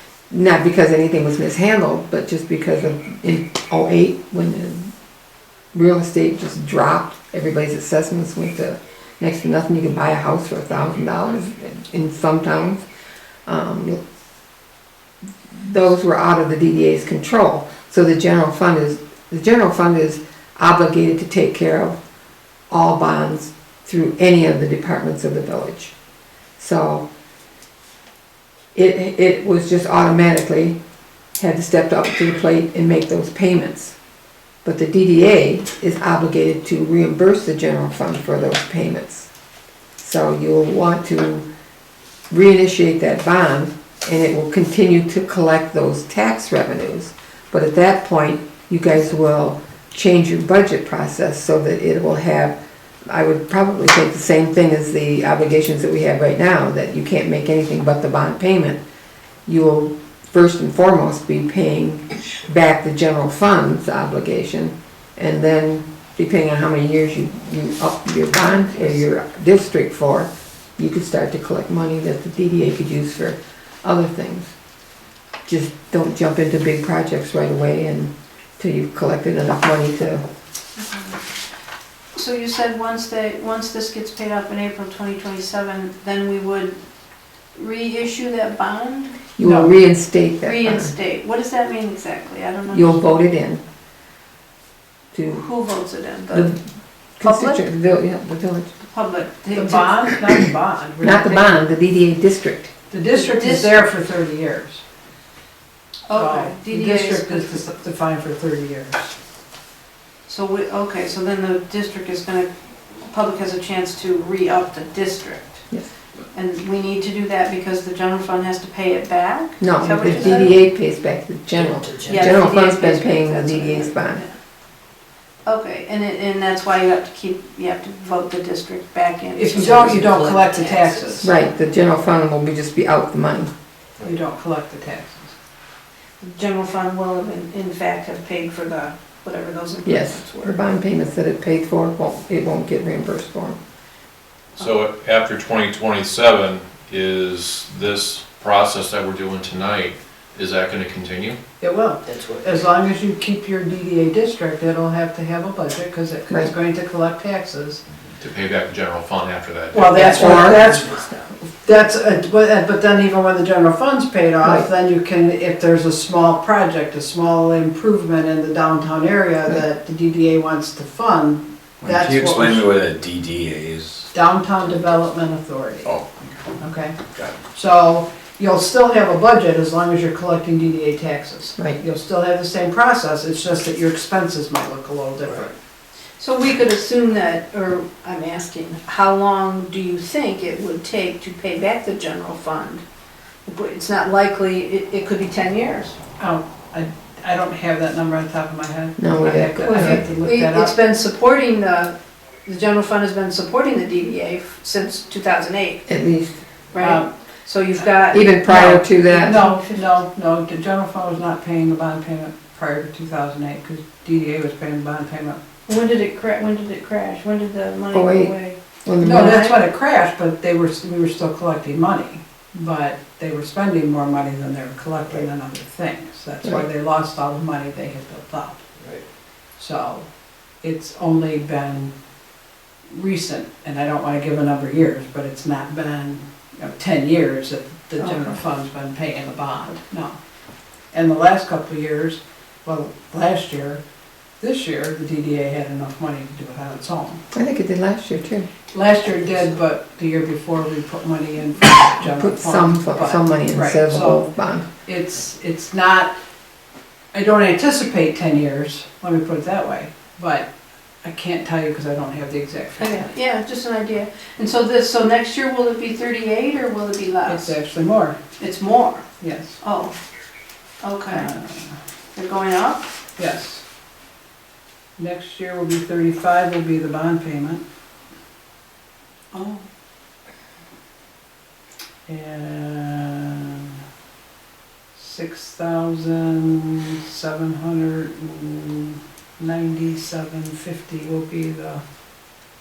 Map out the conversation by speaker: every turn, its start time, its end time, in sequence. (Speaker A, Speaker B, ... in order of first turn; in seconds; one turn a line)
Speaker A: 0.3-4.9
Speaker A: 5.7-12.8
Speaker A: 13.5-14.0
Speaker A: 15.5-22.0
Speaker A: 22.7-25.9
Speaker A: 26.6-27.1
Speaker A: 28.7-30.8
Speaker A: 31.4-33.9
Speaker A: 34.6-39.3
Speaker A: 40.0-41.5
Speaker A: 42.3-52.6
Speaker A: 53.1-58.8
Speaker A: 59.5-74.5
Speaker A: 75.5-80.2
Speaker B: 80.8-81.2
Speaker B: 82.2-86.8
Speaker B: 87.5-89.2
Speaker A: 89.4-90.9
Speaker C: 89.4-89.7
Speaker B: 90.4-93.0
Speaker A: 92.7-93.6
Speaker A: 95.1-95.4
Speaker B: 95.3-96.5
Speaker A: 96.3-96.6
Speaker A: 97.2-98.7
Speaker B: 97.2-97.6
Speaker B: 98.8-100.0
Speaker C: 99.5-101.6
Speaker A: 101.0-102.7
Speaker C: 102.9-104.8
Speaker B: 103.1-103.8
Speaker B: 106.1-107.6
Speaker C: 106.1-109.1
Speaker B: 110.3-115.7
Speaker B: 116.3-120.5
Speaker A: 119.6-124.2
Speaker D: 120.1-120.4
Speaker D: 121.5-122.4
Speaker B: 122.0-124.3
Speaker B: 125.5-131.1
Speaker C: 129.3-131.3
Speaker D: 129.7-131.2
Speaker A: 131.2-133.5
Speaker C: 134.0-135.3
Speaker B: 136.2-140.6
Speaker A: 139.8-143.6
Speaker E: 144.6-151.4
Speaker C: 151.6-157.8
Speaker D: 152.1-152.5
Speaker E: 158.2-160.0
Speaker C: 159.7-160.9
Speaker B: 159.9-160.3
Speaker A: 160.0-160.7
Speaker D: 160.3-161.2
Speaker C: 161.6-172.7
Speaker A: 164.4-164.7
Speaker D: 171.8-174.0
Speaker C: 174.1-176.0
Speaker C: 176.6-185.6
Speaker B: 186.2-192.8
Speaker B: 193.4-195.9
Speaker C: 196.2-200.8
Speaker A: 199.0-200.0
Speaker B: 199.6-201.9
Speaker B: 202.4-205.8
Speaker A: 205.9-206.4
Speaker B: 206.7-209.9
Speaker C: 206.8-207.1
Speaker A: 208.1-209.4
Speaker C: 208.5-215.4
Speaker B: 215.7-219.6
Speaker A: 217.9-218.3
Speaker A: 218.8-219.4
Speaker C: 219.0-228.6
Speaker C: 229.6-230.1
Speaker C: 230.6-231.9
Speaker C: 232.9-240.2
Speaker B: 238.0-238.3
Speaker C: 240.9-243.8
Speaker C: 244.4-247.2
Speaker A: 247.3-248.5
Speaker C: 248.7-254.3
Speaker A: 252.0-254.7
Speaker C: 254.8-256.1
Speaker C: 257.1-260.5
Speaker C: 261.0-263.1
Speaker B: 262.8-267.5
Speaker C: 267.3-268.2
Speaker B: 268.4-269.1
Speaker C: 269.2-269.6
Speaker B: 269.6-269.9
Speaker B: 270.8-271.3
Speaker C: 271.1-271.8
Speaker B: 272.1-272.9
Speaker C: 273.2-273.6
Speaker C: 275.0-277.6
Speaker C: 282.1-283.7
Speaker C: 284.9-291.8